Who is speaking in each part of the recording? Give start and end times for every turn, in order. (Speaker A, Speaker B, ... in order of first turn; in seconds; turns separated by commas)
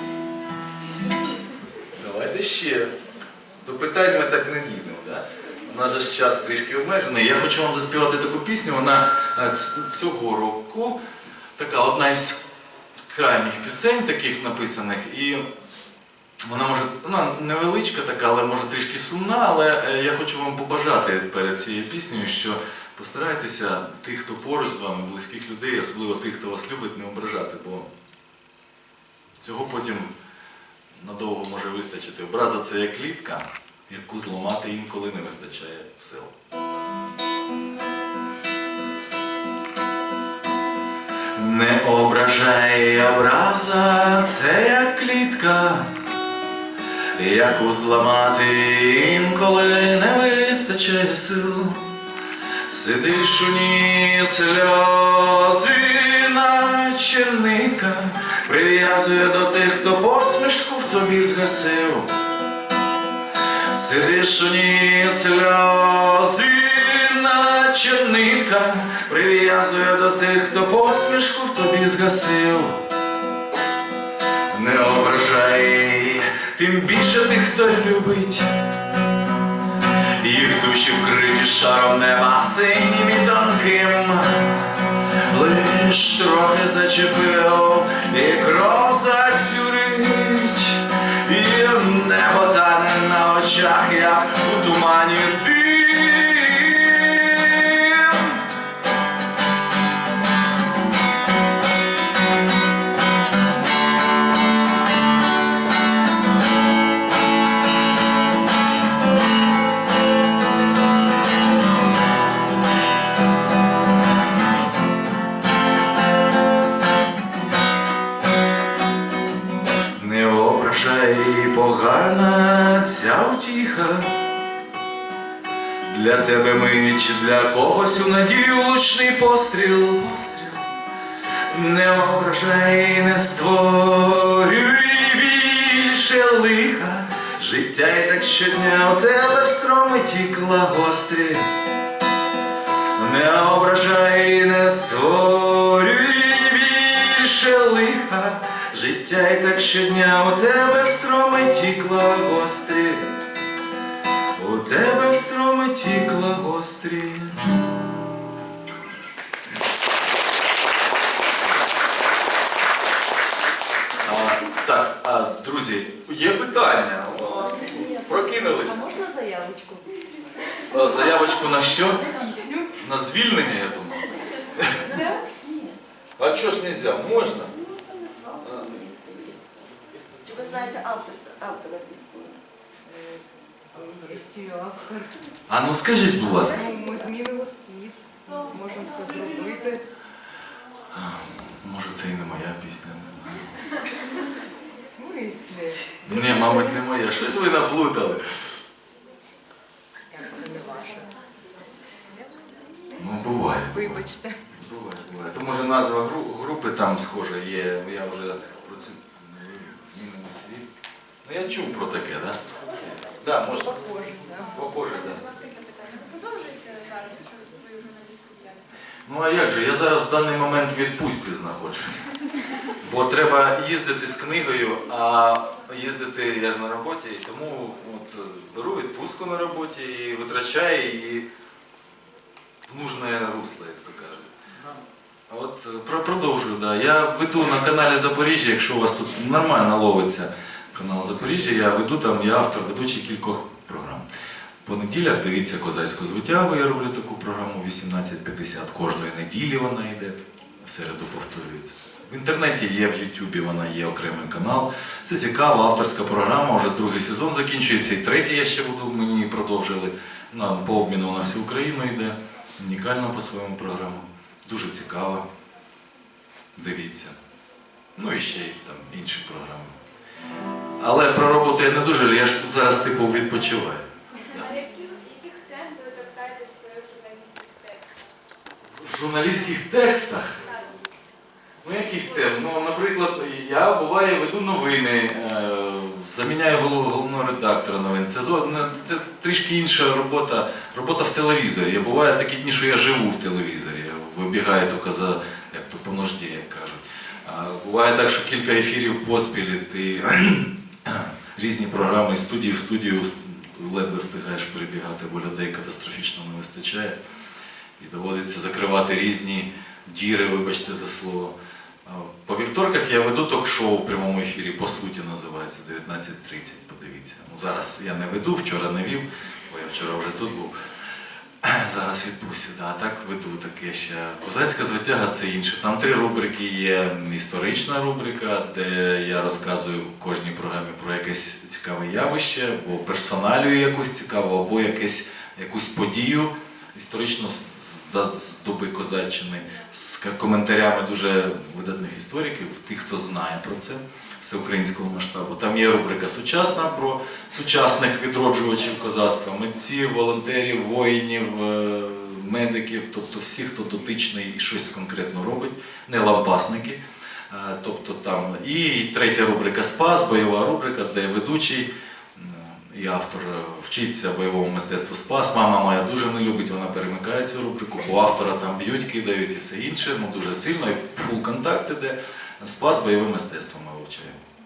Speaker A: 1.9-2.9, Speaker A: 3.6-11.0, Speaker A: 11.6-12.4, Speaker A: 13.1-15.5, Speaker A: 16.4-27.9, Speaker A: 29.4-30.1, Speaker A: 30.9-36.3, Speaker A: 41.3-45.9, Speaker A: 47.1-51.9, Speaker A: 52.7-62.1, Speaker A: 63.7-72.8, Speaker A: 74.5-78.5, Speaker A: 80.2-98.4, Speaker A: 120.0-124.2, Speaker A: 125.8-130.7, Speaker A: 131.5-141.5, Speaker A: 142.9-153.1, Speaker A: 154.4-157.5, Speaker A: 164.0-168.8, Speaker B: 167.6-170.0, Speaker A: 170.7-172.1, Speaker B: 171.9-172.8, Speaker A: 172.8-174.8, Speaker B: 174.8-175.5, Speaker A: 176.2-177.5, Speaker C: 177.7-178.4, Speaker A: 178.4-178.8, Speaker C: 180.2-182.4, Speaker B: 183.7-185.1, Speaker A: 185.5-186.7, Speaker B: 186.2-189.8, Speaker A: 190.9-193.5, Speaker B: 194.8-196.6, Speaker A: 196.0-198.5, Speaker B: 200.1-201.2, Speaker A: 202.9-210.7, Speaker B: 203.7-204.4, Speaker A: 211.2-213.8, Speaker B: 213.5-214.6, Speaker A: 214.5-215.2, Speaker D: 214.9-218.6, Speaker A: 219.1-222.1, Speaker A: 222.8-231.2, Speaker A: 232.7-234.3, Speaker A: 235.3-244.0, Speaker A: 244.6-265.2, Speaker A: 266.5-267.2, Speaker A: 267.9-269.7, Speaker A: 270.8-274.5, Speaker D: 274.3-278.1, Speaker A: 278.8-280.4, Speaker D: 280.4-280.7, Speaker A: 281.6-307.0, Speaker A: 307.8-320.6, Speaker A: 321.4-374.2